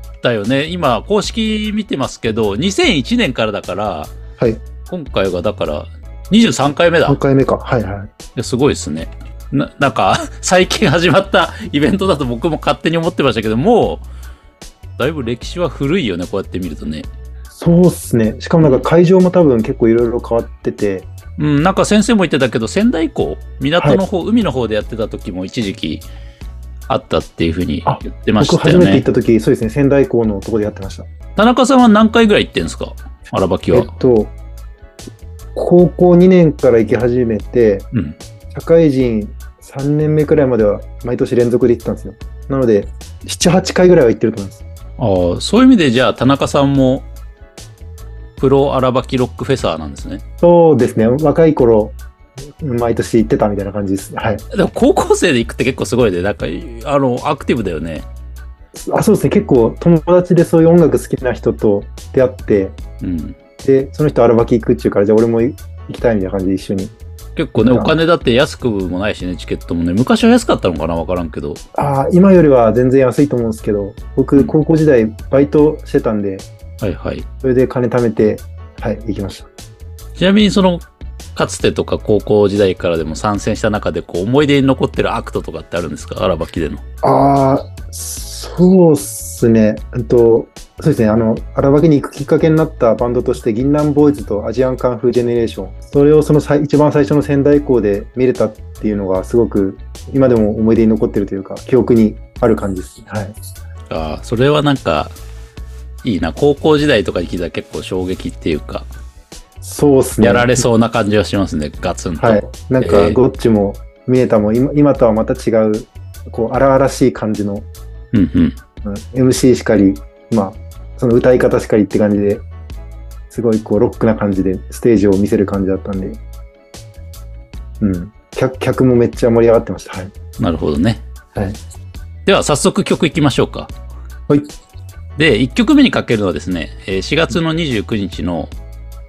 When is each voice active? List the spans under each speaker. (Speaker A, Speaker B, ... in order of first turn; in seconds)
Speaker A: 0.2-4.1, 4.9-7.2, 8.3-14.1, 15.0-17.1, 21.4-26.0, 26.9-29.1, 31.4-33.9, 45.0-47.1, 48.4-50.2, 54.5-58.1, 63.0-63.4, 67.3-71.6, 76.8-77.3, 80.2-80.8, 81.3-86.8, 103.9-105.1, 106.0-108.9, 110.2-113.2, 118.1-118.5, 130.4-131.0, 132.2-133.7, 135.2-138.5
Speaker B: 7.1-8.1, 17.5-21.1, 27.8-31.1, 33.7-34.3, 35.5-37.9, 38.5-44.6, 50.4-52.0, 52.6-54.4, 58.8-62.8, 63.6-66.9, 67.5-67.9, 71.8-76.5, 77.4-79.5, 87.0-103.3, 109.6-110.6, 112.2-117.7, 118.8-122.4, 123.3-126.2, 127.8-130.1